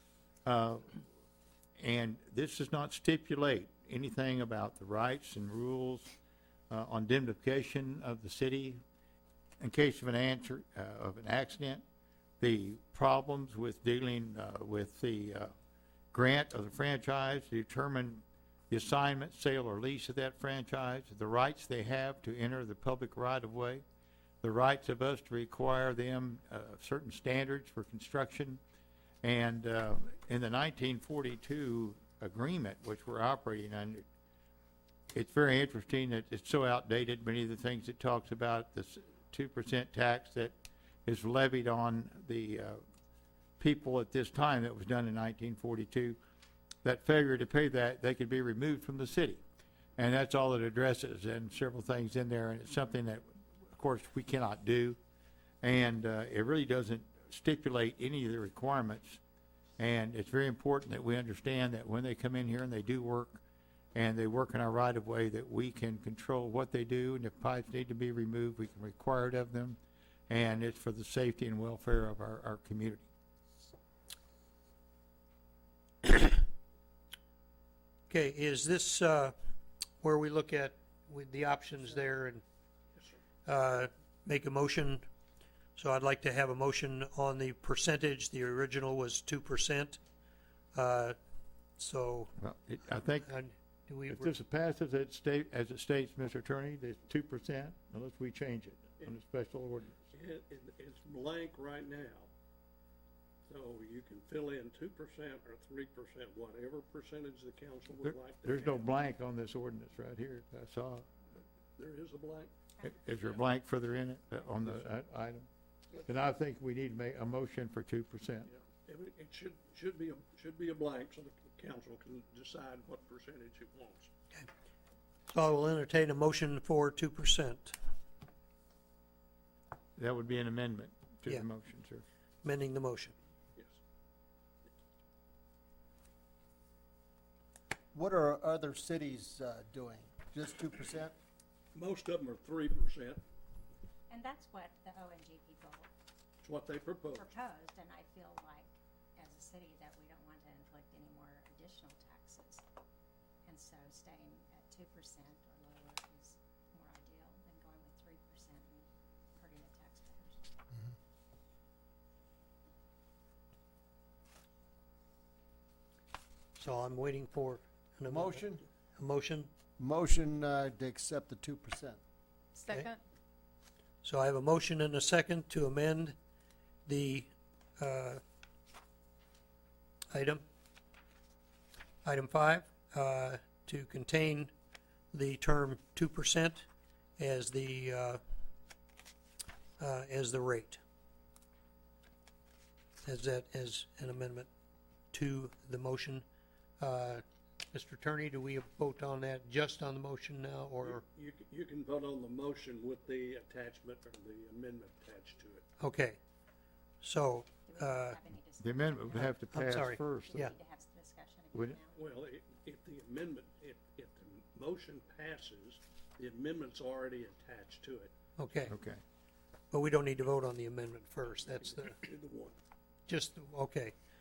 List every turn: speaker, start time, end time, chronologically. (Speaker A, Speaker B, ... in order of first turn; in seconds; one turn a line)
Speaker A: 0.4-1.0
Speaker A: 1.8-6.1
Speaker A: 6.7-8.8
Speaker A: 9.6-11.8
Speaker A: 12.4-15.5
Speaker A: 16.1-23.8
Speaker A: 24.4-28.6
Speaker A: 29.2-34.0
Speaker A: 35.1-40.5
Speaker A: 41.0-42.8
Speaker A: 43.6-46.2
Speaker A: 46.8-49.4
Speaker A: 50.0-55.0
Speaker A: 55.6-59.2
Speaker A: 59.8-63.4
Speaker A: 63.9-73.1
Speaker B: 78.1-79.3
Speaker B: 80.0-82.4
Speaker B: 83.5-85.0
Speaker B: 85.8-90.0
Speaker B: 90.7-91.2
Speaker B: 91.8-92.3
Speaker A: 92.4-93.3
Speaker B: 93.2-94.3
Speaker A: 94.1-100.0
Speaker C: 100.1-102.3
Speaker C: 103.5-108.9
Speaker A: 108.0-111.1
Speaker C: 111.8-112.5
Speaker A: 112.8-115.5
Speaker A: 116.0-118.5
Speaker C: 118.5-124.1
Speaker B: 125.3-127.8
Speaker A: 130.0-132.0
Speaker B: 132.4-133.1
Speaker D: 137.9-141.2
Speaker C: 141.7-143.2
Speaker E: 144.1-145.9
Speaker C: 146.4-147.3
Speaker E: 147.1-152.6
Speaker E: 153.4-160.4
Speaker B: 166.6-169.5
Speaker D: 168.1-168.6
Speaker D: 169.8-172.0
Speaker B: 174.0-176.2
Speaker B: 176.8-178.2
Speaker B: 180.1-180.4
Speaker B: 182.0-184.5
Speaker B: 185.1-186.7
Speaker B: 187.2-188.2
Speaker B: 189.8-190.8
Speaker B: 193.0-194.5
Speaker B: 195.1-196.2
Speaker B: 196.8-201.0
Speaker C: 200.8-205.6
Speaker B: 205.8-206.2
Speaker B: 207.0-208.2
Speaker E: 207.6-209.4
Speaker A: 208.6-210.4
Speaker B: 209.1-210.5
Speaker E: 210.1-212.0
Speaker C: 211.9-218.1
Speaker B: 218.4-218.7
Speaker A: 218.7-219.0
Speaker B: 219.7-222.0
Speaker C: 221.8-222.6
Speaker B: 223.1-223.9